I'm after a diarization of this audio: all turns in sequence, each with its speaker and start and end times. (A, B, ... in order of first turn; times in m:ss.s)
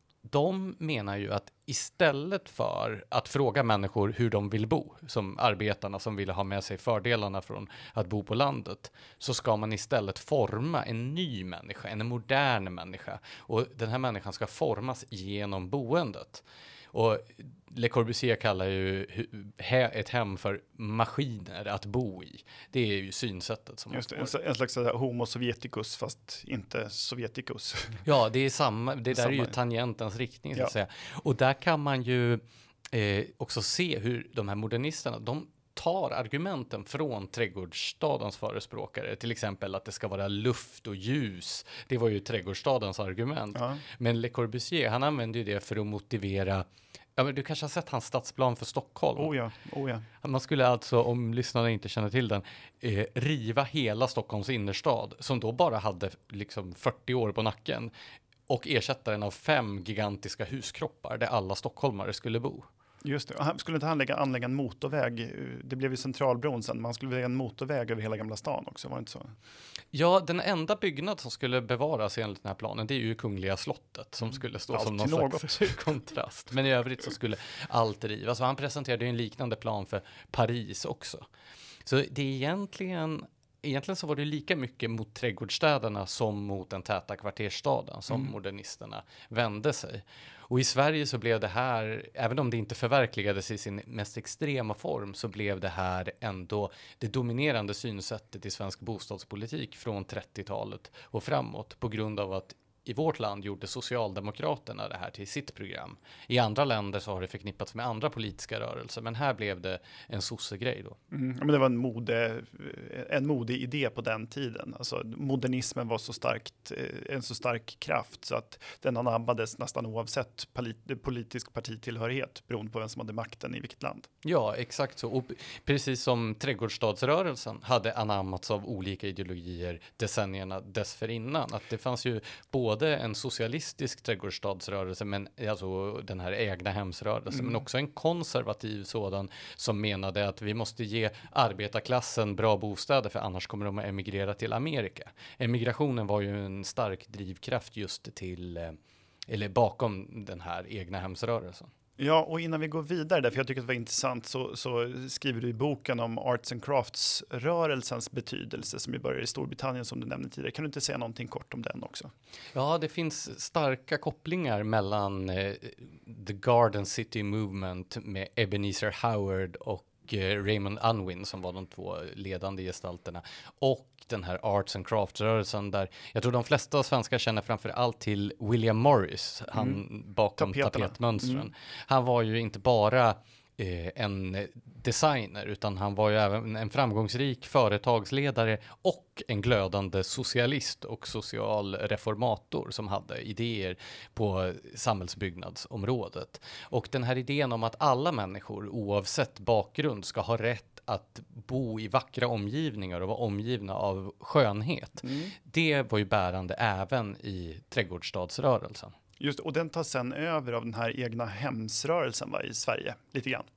0:00.3-0:24.3 A
0:23.9-0:28.0 B
0:28.0-0:46.6 A
0:29.1-0:29.5 B
0:43.6-0:43.8 B
0:47.2-0:49.4 A
0:49.2-0:50.1 B
0:50.2-0:57.9 A
0:58.5-1:02.7 A
1:03.0-1:09.3 B
1:09.9-1:21.2 A
1:14.3-1:15.9 B
1:21.8-1:51.0 A
1:51.1-2:04.1 B
2:04.2-2:28.8 A
2:17.3-2:17.6 B
2:29.3-2:31.7 A
2:32.0-2:42.1 B
2:42.6-3:29.0 A
2:59.5-2:59.8 B
3:00.4-3:01.5 B
3:25.0-3:25.3 B
3:29.2-3:33.5 B